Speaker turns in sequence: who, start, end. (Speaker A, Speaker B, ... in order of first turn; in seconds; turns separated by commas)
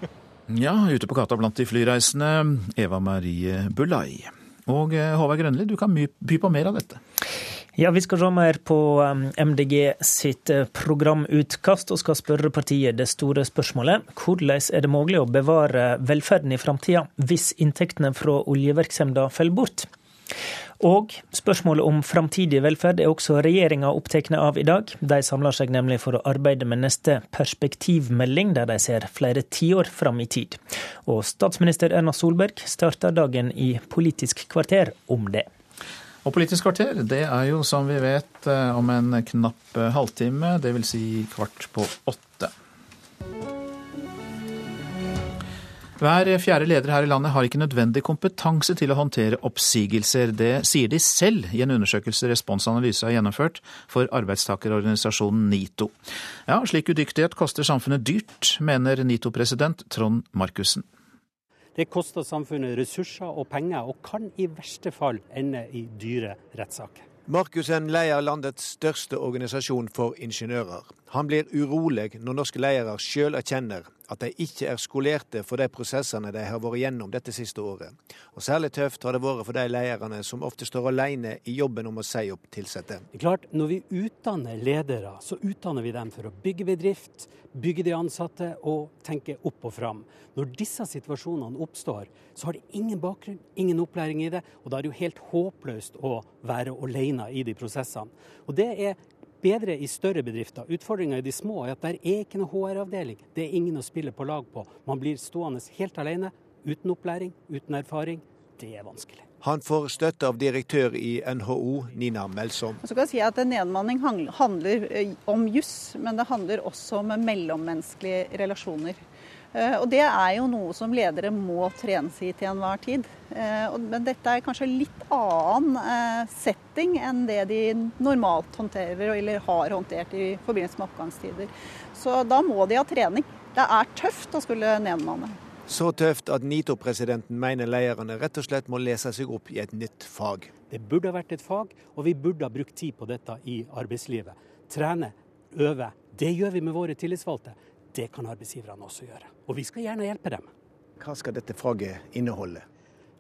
Speaker A: 0.5-7.0, Speaker B: 7.8-19.9, Speaker B: 20.8-35.5, Speaker A: 36.2-42.5, Speaker A: 46.0-56.0, Speaker A: 56.5-60.9, Speaker C: 61.8-67.0, Speaker D: 67.3-83.1, Speaker C: 83.1-109.2, Speaker D: 109.4-112.8, Speaker E: 112.9-119.0, Speaker E: 119.5-135.4, Speaker D: 135.7-140.5, Speaker C: 140.7-150.5, Speaker D: 151.0-152.6